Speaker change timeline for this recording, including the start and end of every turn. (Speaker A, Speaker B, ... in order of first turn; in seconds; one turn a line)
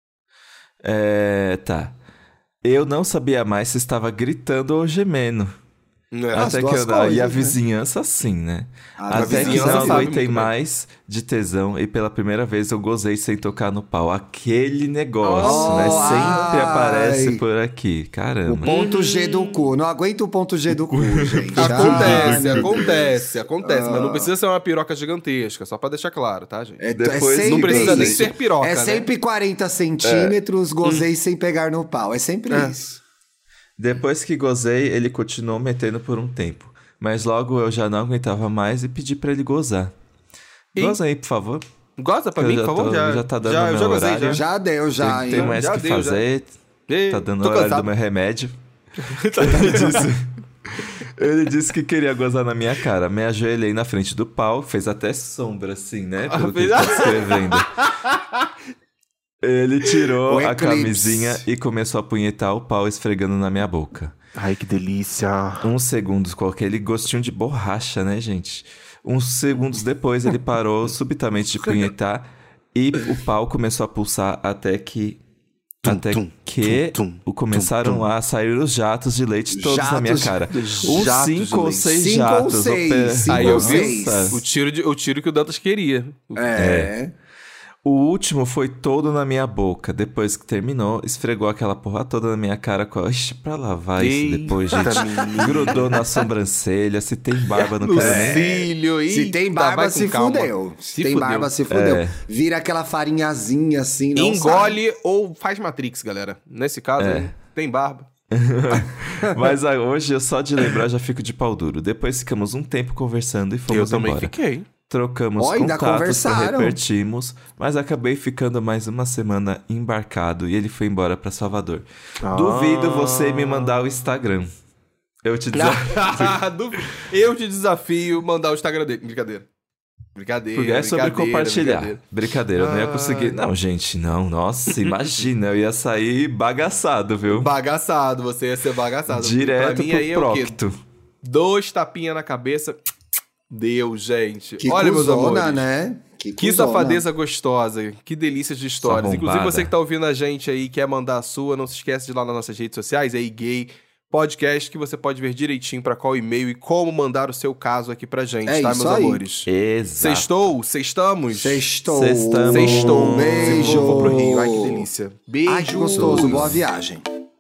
Speaker A: 0.8-2.0
Speaker A: 2.6-5.5
Speaker B: 6.1-6.6
Speaker C: 6.3-7.6
Speaker A: 6.3-18.7
Speaker C: 9.0-10.1
Speaker B: 9.1-10.5
Speaker B: 15.2-16.5
Speaker C: 15.4-17.4
Speaker C: 18.5-24.3
Speaker B: 18.6-19.7
Speaker A: 20.9-22.8
Speaker B: 21.6-26.8
Speaker C: 26.8-33.0
Speaker A: 26.9-28.3
Speaker B: 27.4-29.1
Speaker A: 30.0-30.4
Speaker A: 33.8-39.9
Speaker B: 40.8-41.0
Speaker A: 40.8-41.6
Speaker B: 42.0-44.4
Speaker A: 42.4-44.5
Speaker C: 44.3-45.6
Speaker A: 45.0-46.6
Speaker B: 45.3-46.2
Speaker B: 46.9-47.9
Speaker A: 47.1-48.6
Speaker B: 49.0-50.1
Speaker A: 49.4-57.9
Speaker B: 56.3-58.5
Speaker A: 59.4-64.2
Speaker C: 60.3-61.5
Speaker B: 64.4-65.7
Speaker A: 65.6-75.2
Speaker B: 75.8-78.1
Speaker A: 75.8-84.4
Speaker C: 79.5-81.1
Speaker B: 80.5-82.0
Speaker C: 81.9-84.4
Speaker B: 83.3-86.6
Speaker C: 86.3-87.1
Speaker A: 86.6-87.0
Speaker A: 87.8-98.5
Speaker B: 94.0-96.0
Speaker C: 95.0-95.5
Speaker B: 97.6-101.5
Speaker C: 98.0-104.8
Speaker A: 101.7-102.2
Speaker B: 104.2-108.1
Speaker A: 107.0-107.3
Speaker A: 108.3-114.3
Speaker B: 113.7-114.7
Speaker A: 114.9-124.5
Speaker C: 115.4-116.8
Speaker B: 122.2-123.8
Speaker A: 125.2-126.4
Speaker B: 125.5-129.5
Speaker B: 130.2-132.0
Speaker A: 130.6-137.5
Speaker B: 132.6-133.4
Speaker B: 134.8-135.2
Speaker B: 137.3-140.6
Speaker A: 139.1-140.8
Speaker B: 141.2-142.8
Speaker B: 143.5-145.7
Speaker C: 144.6-147.0
Speaker B: 146.4-159.5
Speaker A: 148.8-149.7
Speaker C: 158.5-159.2
Speaker A: 159.5-160.4
Speaker B: 160.0-161.7
Speaker C: 161.3-164.9
Speaker A: 161.9-164.3
Speaker B: 162.5-166.5
Speaker C: 165.5-167.1
Speaker A: 165.9-166.6